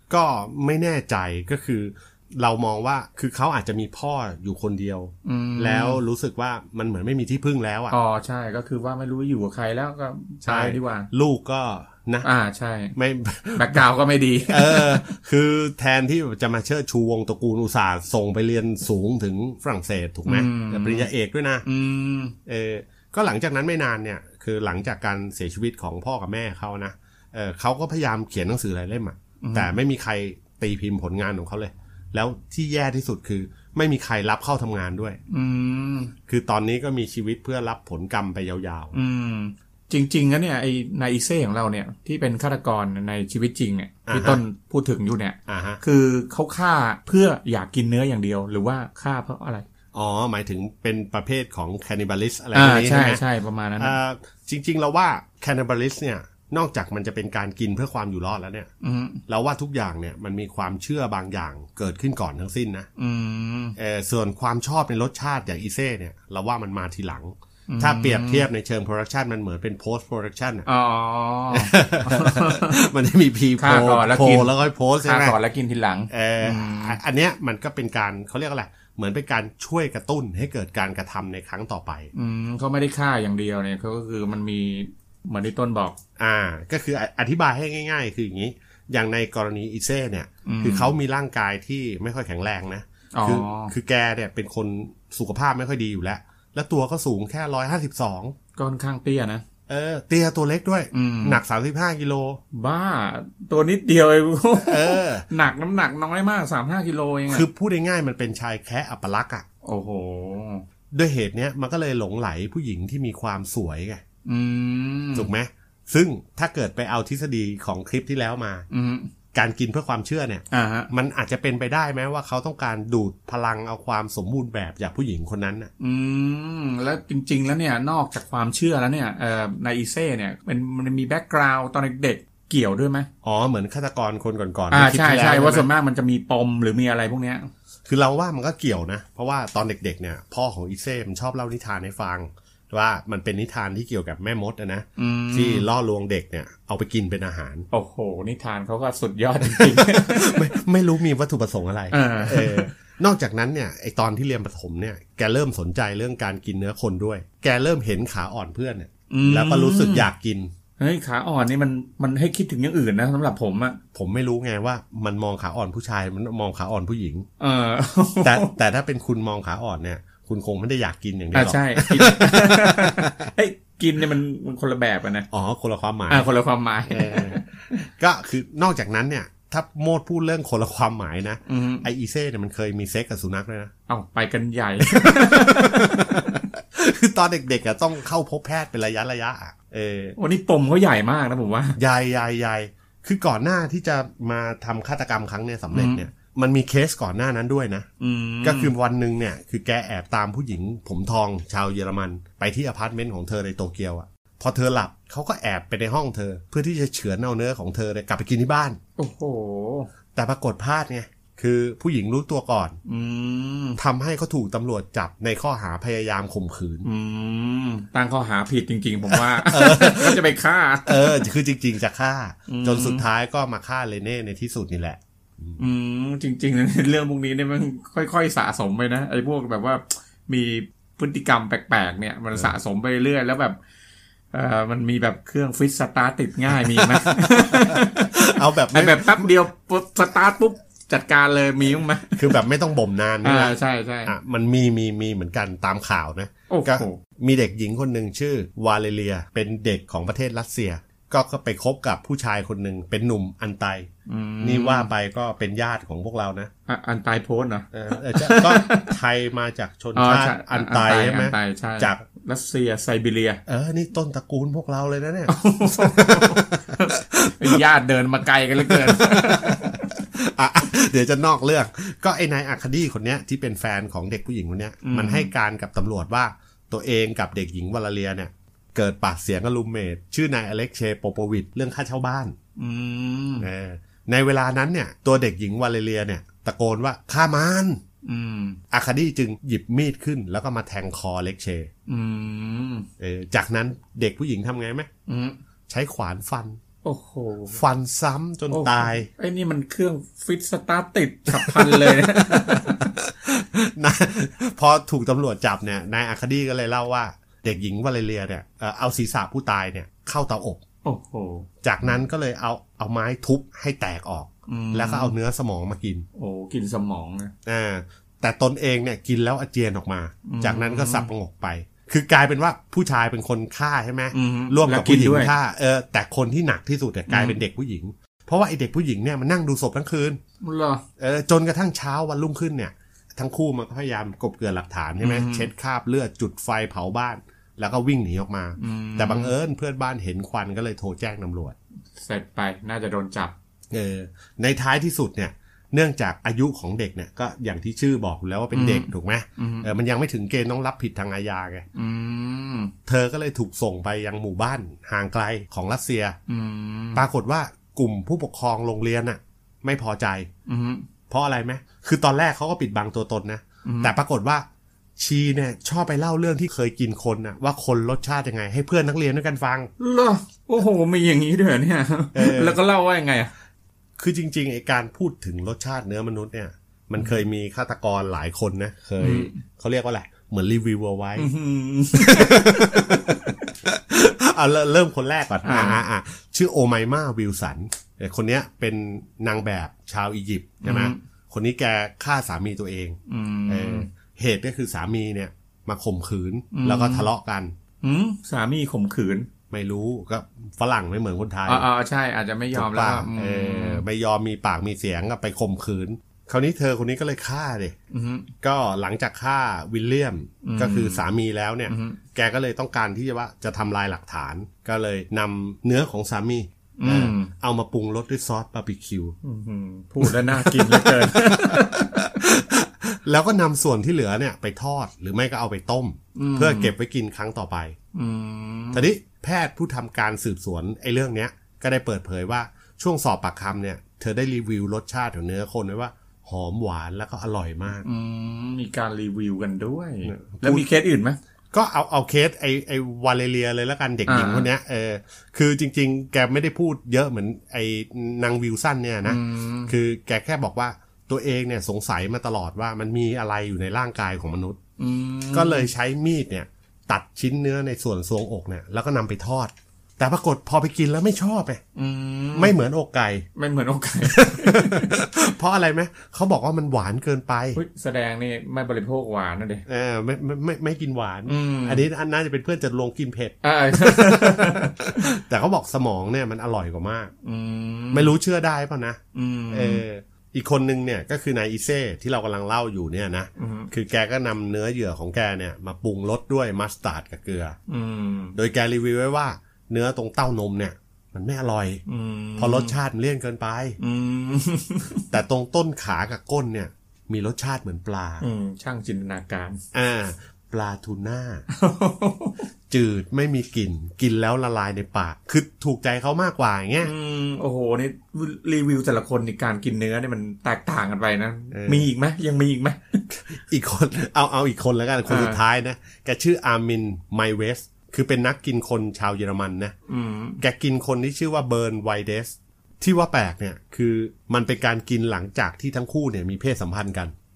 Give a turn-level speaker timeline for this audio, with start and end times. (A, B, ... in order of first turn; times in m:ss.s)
0:00.1-0:08.0 A
0:05.2-0:06.0 B
0:07.9-0:11.1 B
0:10.4-0:12.3 A
0:12.2-0:12.9 B
0:13.0-0:13.8 A
0:13.5-0:15.0 B
0:14.5-0:21.6 A
0:20.2-0:21.1 B
0:21.6-0:22.3 B
0:22.4-0:35.2 A
0:29.4-0:29.7 B
0:35.3-0:36.1 B
0:36.3-0:39.0 A
0:38.9-0:49.6 B
0:44.1-0:44.4 A
0:45.5-0:45.8 A
0:49.9-0:53.2 A
0:52.5-0:53.9 B
0:53.8-0:58.7 A
0:58.8-0:59.2 B
0:59.3-1:02.9 A
1:03.0-1:03.8 B
1:03.8-1:10.7 A
1:07.7-1:08.5 B
1:10.6-1:12.8 B
1:11.5-1:15.4 A
1:13.6-1:17.0 B
1:16.1-1:22.1 A
1:22.1-1:26.0 B
1:26.2-1:38.3 A
1:30.4-1:30.9 B
1:33.1-1:33.7 B
1:38.6-1:39.4 B
1:39.7-1:42.4 A
1:40.9-1:41.4 B
1:42.5-1:47.4 B
1:44.6-1:45.2 A
1:47.3-1:49.4 A
1:49.6-1:50.6 B
1:50.9-1:54.0 A
1:54.2-1:55.3 B
1:55.1-1:58.7 A
1:58.7-1:59.1 B
1:59.3-2:05.7 A
2:00.5-2:00.9 B
2:05.8-2:13.1 B
2:13.2-2:15.7 A
2:14.7-2:17.5 B
2:17.8-2:27.7 A
2:25.0-2:25.7 B
2:27.7-2:30.5 B
2:29.4-2:40.5 A
2:31.9-2:32.7 B
2:39.1-2:40.1 B
2:40.8-2:43.8 B
2:43.9-2:47.3 A
2:47.4-2:48.5 B
2:48.2-2:53.3 A
2:51.3-2:55.3 B
2:55.3-2:56.3 A
2:56.1-2:57.8 B
2:56.9-3:03.7 A
3:01.4-3:01.8 B
3:03.9-3:06.4 B
3:04.8-3:10.2 A
3:10.2-3:11.8 B
3:11.8-3:17.9 A
3:15.7-3:16.0 B
3:18.0-3:18.7 B
3:18.4-3:28.8 A
3:29.0-3:29.9 B
3:30.1-3:32.8 A
3:32.8-3:33.8 B
3:33.8-3:36.9 A
3:36.8-3:41.3 B
3:39.1-3:40.2 A
3:40.8-3:45.6 A
3:42.5-3:43.0 B
3:45.6-3:53.6 B
3:54.3-4:02.4 B
3:56.5-3:59.3 A
4:02.1-4:13.9 A
4:03.2-4:04.1 B
4:06.5-4:07.0 B
4:14.1-4:14.9 B
4:14.4-4:16.5 A
4:16.7-4:19.0 B
4:17.7-4:22.0 A
4:20.0-4:23.4 B
4:23.4-4:27.6 A
4:25.3-4:29.8 B
4:28.6-4:42.4 A
4:34.8-4:35.3 B
4:42.6-4:43.5 B
4:43.4-4:47.8 A
4:48.0-4:48.6 B
4:48.7-4:51.7 A
4:51.9-4:52.9 B
4:53.0-4:54.9 A
4:55.1-4:55.4 B
4:55.7-4:56.6 A
4:56.8-4:57.6 B
4:57.5-4:59.1 A
4:58.5-5:02.9 B
5:01.3-5:10.6 A
5:10.8-5:11.5 B
5:11.6-5:16.0 A
5:14.5-5:15.1 B
5:16.1-5:17.3 B
5:17.4-5:30.2 A
5:20.2-5:21.1 B
5:24.1-5:25.3 B
5:27.1-5:27.4 B
5:30.4-5:30.8 B
5:31.0-5:41.6 A
5:35.0-5:35.5 B
5:38.6-5:39.3 B
5:42.0-5:43.3 B
5:43.7-5:51.6 A
5:48.5-5:49.7 B
5:51.7-5:52.7 B
5:52.8-5:56.2 A
5:56.3-5:57.0 B
5:56.9-6:00.3 A
6:00.5-6:00.9 B
6:01.1-6:04.4 A
6:03.6-6:03.9 B
6:05.0-6:09.7 A
6:09.8-6:13.3 B
6:12.1-6:12.6 A
6:14.0-6:21.3 A
6:19.0-6:19.3 B
6:21.2-6:23.5 B
6:21.9-6:37.5 A
6:25.4-6:25.8 B
6:30.6-6:31.0 B
6:33.1-6:33.9 B
6:36.5-6:37.1 B
6:37.8-6:39.3 B
6:39.5-6:41.7 A
6:41.4-6:43.8 B
6:42.5-6:47.7 A
6:47.9-6:48.3 B
6:48.4-6:59.2 A
6:50.4-6:51.0 B
6:51.7-6:52.0 B
6:56.8-6:57.3 B
6:59.2-7:02.1 B
7:00.0-7:07.8 A
7:06.1-7:06.7 B
7:07.9-7:08.9 B
7:08.7-7:17.8 A
7:17.8-7:21.2 B
7:20.0-7:20.6 A
7:21.5-7:34.6 A
7:24.1-7:24.5 B
7:29.0-7:29.7 B
7:34.8-7:35.7 B
7:35.3-7:41.6 A
7:41.7-7:42.6 B
7:42.3-7:43.3 A
7:43.4-7:44.9 B
7:44.0-7:47.6 A
7:47.6-7:49.6 B
7:49.7-7:57.1 A
7:51.3-7:51.8 B
7:53.4-7:55.1 B
7:57.2-7:58.2 B
7:57.9-7:59.0 A
7:59.1-7:59.8 B
7:59.5-8:07.6 A
8:03.4-8:03.7 B
8:07.7-8:08.4 B
8:08.4-8:11.8 A
8:11.9-8:12.7 B
8:12.4-8:13.8 A
8:13.8-8:15.0 B
8:15.1-8:18.2 A
8:18.2-8:19.6 B
8:19.7-8:21.4 A
8:21.5-8:22.4 B
8:22.7-8:26.9 A
8:26.8-8:33.0 B
8:31.5-8:31.9 A
8:33.1-8:39.7 A
8:35.0-8:35.4 B
8:39.9-8:40.4 B
8:40.4-8:47.1 A